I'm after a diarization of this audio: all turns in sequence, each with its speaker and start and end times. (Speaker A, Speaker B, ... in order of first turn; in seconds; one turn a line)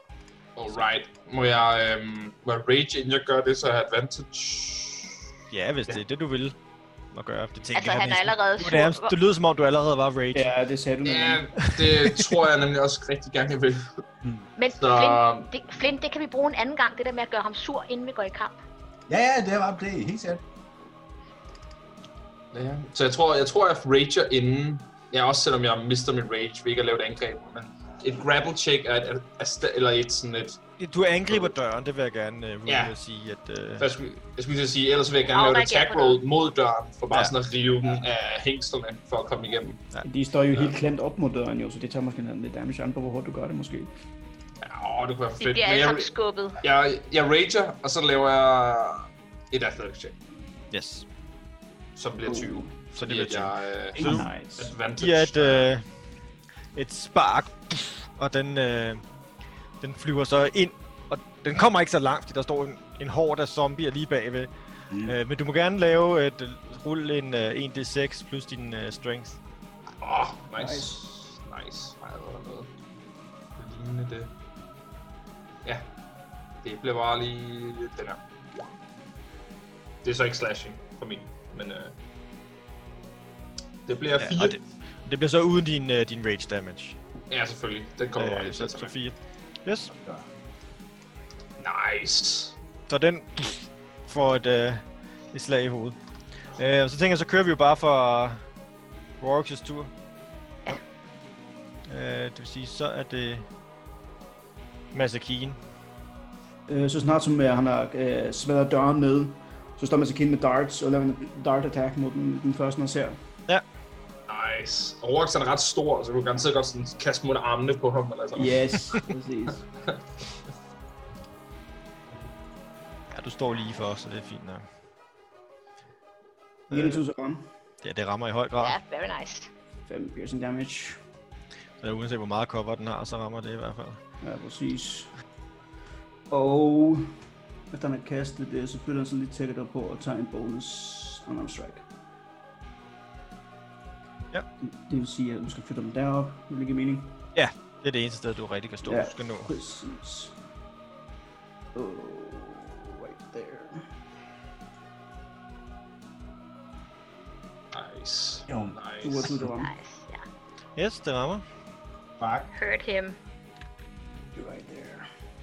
Speaker A: 0.6-5.2
Speaker B: 5.5-6.5
Speaker B: 7.1-10.5
Speaker C: 7.7-9.1
Speaker D: 10.3-11.5
Speaker A: 11.0-14.1
Speaker B: 11.6-12.4
Speaker C: 14.6-18.6
Speaker A: 14.8-15.5
Speaker E: 19.1-20.4
Speaker A: 22.5-30.6
Speaker B: 30.8-33.9
Speaker A: 32.7-32.9
Speaker A: 33.8-39.9
Speaker C: 35.3-36.2
Speaker D: 40.0-43.9
Speaker A: 44.6-50.1
Speaker C: 45.4-46.6
Speaker B: 50.7-51.0
Speaker A: 51.9-55.7
Speaker D: 52.2-52.7
Speaker B: 52.9-54.3
Speaker D: 54.0-54.7
Speaker B: 55.0-55.8
Speaker B: 56.7-59.0
Speaker B: 59.8-69.4
Speaker A: 70.0-72.7
Speaker D: 70.6-71.0
Speaker A: 73.5-74.3
Speaker A: 76.6-78.2
Speaker A: 80.0-82.0
Speaker A: 83.8-84.6
Speaker B: 84.2-87.0
Speaker A: 87.3-88.9
Speaker B: 88.2-89.9
Speaker E: 89.9-90.2
Speaker A: 91.6-92.5
Speaker B: 92.9-96.0
Speaker B: 96.5-98.4
Speaker B: 99.2-99.9
Speaker B: 101.9-103.5
Speaker B: 104.9-105.6
Speaker D: 106.7-113.2
Speaker A: 114.3-119.0
Speaker D: 118.3-119.7
Speaker B: 123.1-124.6
Speaker B: 126.7-127.0
Speaker D: 126.7-127.5
Speaker B: 127.8-128.8
Speaker C: 128.6-129.5
Speaker D: 129.9-131.0
Speaker B: 131.8-134.0
Speaker D: 134.2-135.1
Speaker D: 136.3-137.1
Speaker D: 137.7-141.8
Speaker D: 144.6-147.2
Speaker B: 147.3-149.5
Speaker D: 148.8-150.3
Speaker D: 151.7-153.8
Speaker A: 157.7-159.3
Speaker E: 158.5-158.8
Speaker D: 159.0-159.7
Speaker C: 159.6-160.2
Speaker B: 160.8-161.4
Speaker E: 162.2-162.5
Speaker C: 162.5-163.2
Speaker D: 164.3-165.1